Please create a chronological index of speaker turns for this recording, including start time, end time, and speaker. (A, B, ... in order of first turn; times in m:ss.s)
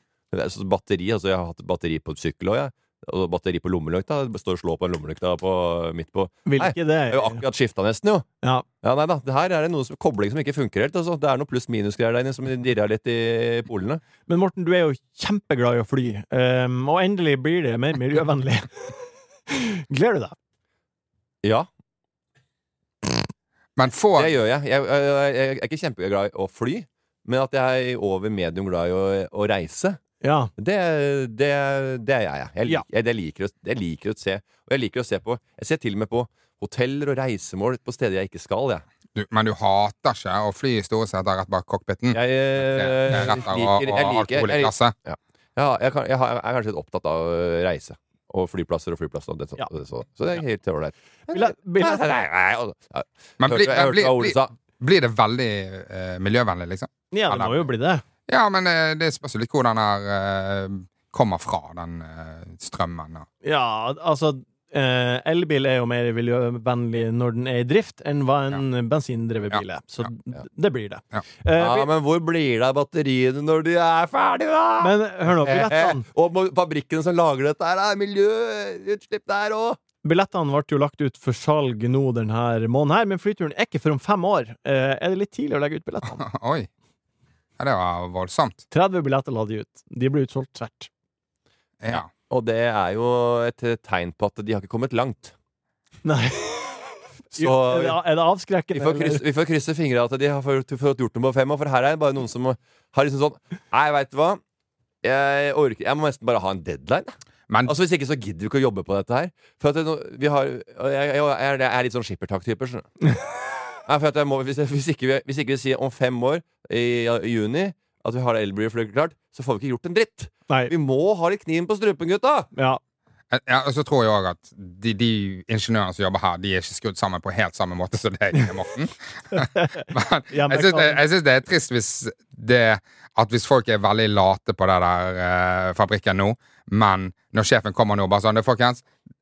0:00.3-0:08.3 A
0:06.5-0:07.4 B
0:08.8-0:14.0 A
0:14.3-0:19.0 B
0:19.5-0:20.3 B
0:23.8-0:24.3 C
0:24.2-0:30.0 A
0:30.2-0:30.5 B
0:30.6-0:38.8 A
0:39.1-0:44.9 C
0:42.1-0:54.5 A
0:51.3-0:52.0 B
0:53.4-0:57.7 C
0:57.1-0:58.0 B
0:58.3-1:03.2 C
1:03.4-1:11.9 B
1:11.6-1:19.8 A
1:14.8-1:16.0 B
1:20.0-1:26.2 B
1:26.1-1:26.7 C
1:27.6-1:28.6 C
1:28.7-1:30.9 B
1:31.8-1:32.1 C
1:31.9-1:35.3 A
1:36.0-1:39.2 B
1:37.3-1:38.0 A
1:38.7-1:44.4 A
1:45.0-1:47.1 A
1:47.6-1:52.9 A
1:53.8-2:02.5 A
2:02.5-2:02.8 B
2:03.3-2:18.8 C
2:09.3-2:11.0 B